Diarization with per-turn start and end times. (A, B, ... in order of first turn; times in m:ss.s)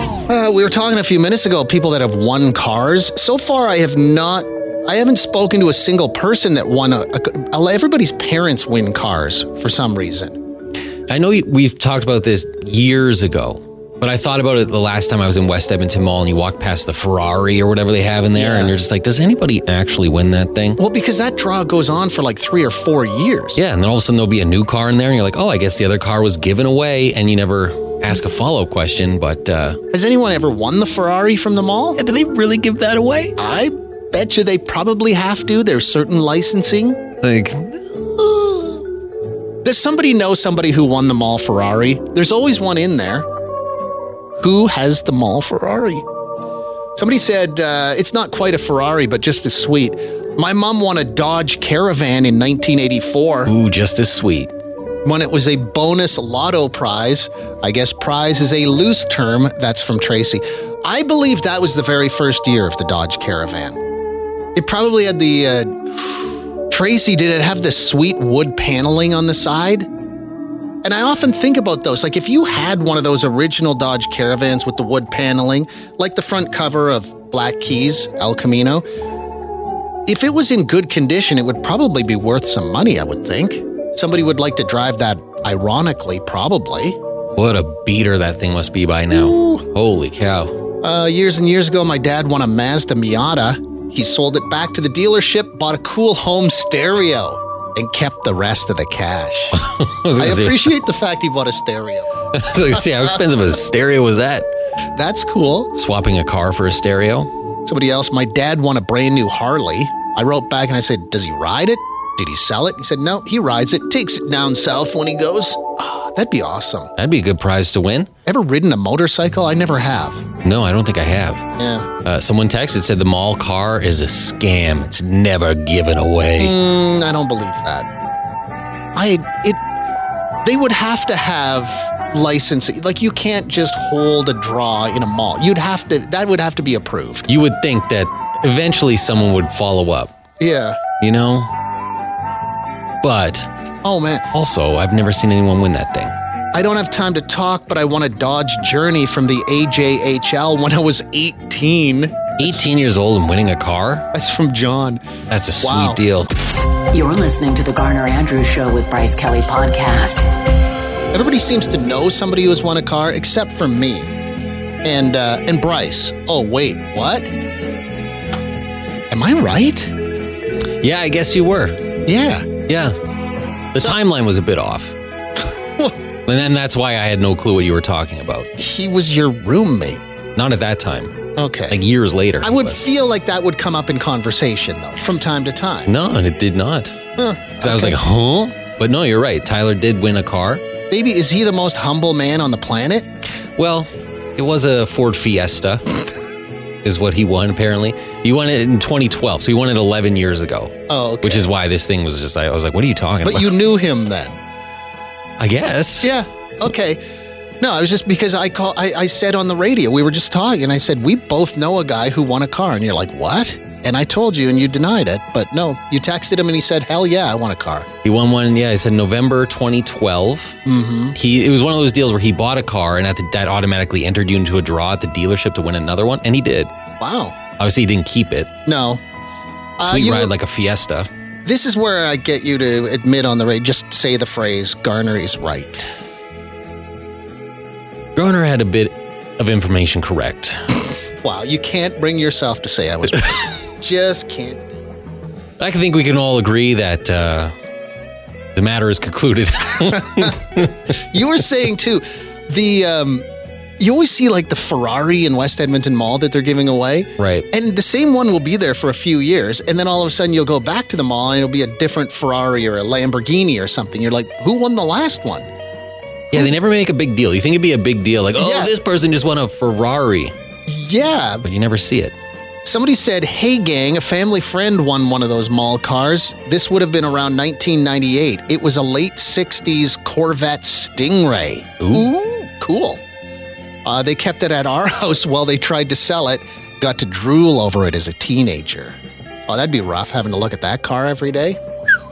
0:00.3-0:10.4 A
0:11.1-0:20.8 B
0:18.3-0:18.8 A
0:20.8-0:23.6 A
0:23.6-0:29.8 B
0:29.9-0:32.0 A
0:32.0-0:33.4 B
0:33.4-0:37.0 A
0:37.2-0:38.8 B
0:39.6-0:43.3 A
0:44.4-0:46.0 A
0:47.0-0:53.5 A
0:53.4-0:54.5 B
0:55.0-1:03.8 A
1:04.5-1:09.9 A
1:10.8-1:18.8 A
1:20.0-1:27.0 A
1:27.3-1:30.6 B
1:29.1-1:29.6 A
1:30.8-1:39.6 A
1:39.5-1:40.8 B
1:40.2-1:42.1 A
1:42.3-1:44.5 B
1:44.9-1:45.8 A
1:45.8-1:47.3 B
1:47.6-1:56.9 A
1:57.0-1:58.1 B
1:58.2-2:00.2 A
2:00.4-2:01.4 B
2:01.6-2:01.9 A
2:02.0-2:06.6 B
2:06.4-2:07.9 A
2:08.9-2:09.6 A
2:10.4-2:17.3 A
2:17.3-2:20.1 B
2:20.4-2:20.8 A
2:21.0-2:21.5 B
2:23.0-2:23.5 B
2:23.8-2:24.3 A
2:24.3-2:26.1 B
2:26.5-2:32.6 A
2:32.4-2:34.1 B
2:34.1-2:35.0 A
2:35.3-2:36.3 B
2:35.6-2:36.0 A
2:36.9-2:40.2 C
2:41.1-2:44.1 A
2:44.8-2:47.3 A
2:49.1-2:49.9 A
2:50.8-2:51.9 B
2:52.0-2:52.5 A
2:52.7-2:52.9 B
2:53.7-2:55.0 B
2:56.2-2:58.5 B
2:58.6-3:00.0 A
3:00.4-3:01.1 B
3:01.4-3:01.8 A
3:01.7-3:02.9 B
3:02.4-3:05.9 A
3:05.8-3:07.0 B
3:07.2-3:08.0 A
3:07.6-3:10.6 B
3:10.9-3:13.0 A
3:13.6-3:15.8 B
3:16.8-3:23.6 B
3:20.9-3:21.5 A
3:23.2-3:24.4 A
3:25.4-3:26.1 B
3:26.0-3:27.0 A
3:27.6-3:37.9 A
3:38.0-3:40.6 B
3:40.6-3:41.2 A
3:41.1-3:46.7 B
3:47.0-3:47.4 A
3:47.6-3:48.5 B
3:48.6-3:49.0 A
3:49.8-3:50.3 A
3:49.8-3:51.1 B
3:51.4-3:55.9 A
3:58.1-4:00.6 B
4:01.2-4:04.7 A
4:05.6-4:07.5 B
4:08.5-4:10.7 B
4:10.9-4:13.3 A
4:13.8-4:25.5 A
4:17.2-4:17.4 B
4:26.3-4:30.3 B
4:28.3-4:28.7 A
4:30.7-4:31.5 A
4:31.4-4:32.1 B
4:32.6-4:43.0 A
4:41.8-4:42.1 B
4:43.8-4:49.0 A
4:49.5-4:51.6 A